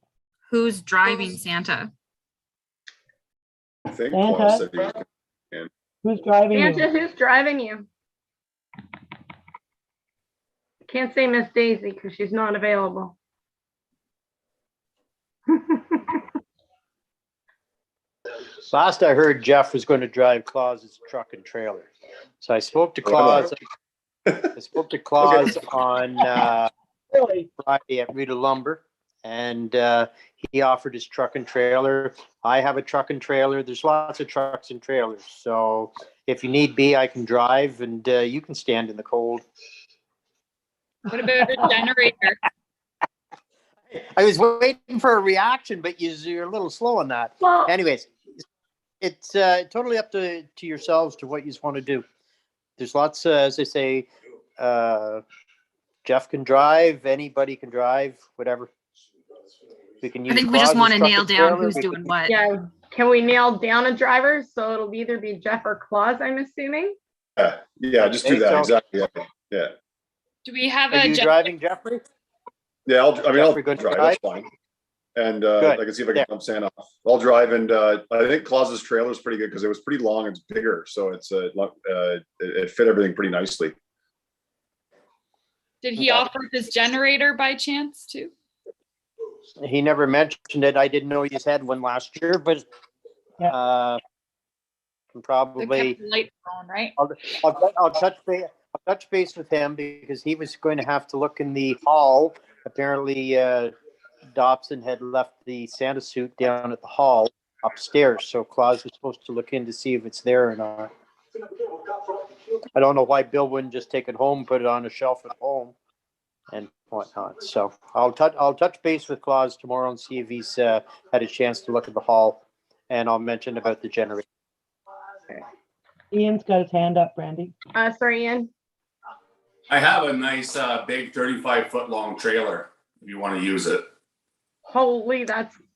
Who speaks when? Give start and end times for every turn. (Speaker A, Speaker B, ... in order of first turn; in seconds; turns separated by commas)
Speaker A: 0.5-1.9, Speaker B: 3.9-5.7, Speaker C: 4.1-4.7, Speaker C: 6.0-6.8, Speaker D: 6.5-7.9, Speaker D: 10.9-13.2, Speaker D: 15.5-16.2, Speaker E: 18.7-21.9, Speaker E: 22.4-23.6, Speaker B: 23.0-23.5, Speaker E: 24.5-26.7, Speaker B: 25.2-25.6, Speaker C: 27.1-27.5, Speaker E: 27.6-39.4, Speaker F: 41.1-42.4, Speaker E: 43.9-48.1, Speaker D: 47.4-47.7, Speaker E: 49.0-52.0, Speaker E: 52.8-55.2, Speaker E: 56.0-58.7, Speaker E: 60.0-62.1, Speaker A: 60.3-62.3, Speaker D: 62.2-67.0, Speaker B: 67.4-69.7, Speaker E: 68.0-68.8, Speaker F: 70.4-71.5, Speaker E: 70.9-72.0, Speaker B: 72.9-74.5, Speaker E: 73.3-74.2, Speaker B: 75.2-83.8, Speaker E: 75.6-76.3, Speaker F: 85.8-88.3, Speaker E: 86.0-86.3, Speaker E: 89.6-92.6, Speaker E: 93.5-94.0, Speaker E: 95.1-96.0, Speaker F: 95.6-96.9, Speaker E: 97.0-103.7, Speaker E: 104.4-110.9, Speaker E: 112.8-115.8, Speaker E: 116.5-124.2, Speaker C: 126.1-127.5, Speaker D: 127.8-128.5, Speaker G: 129.7-133.9, Speaker D: 134.7-135.6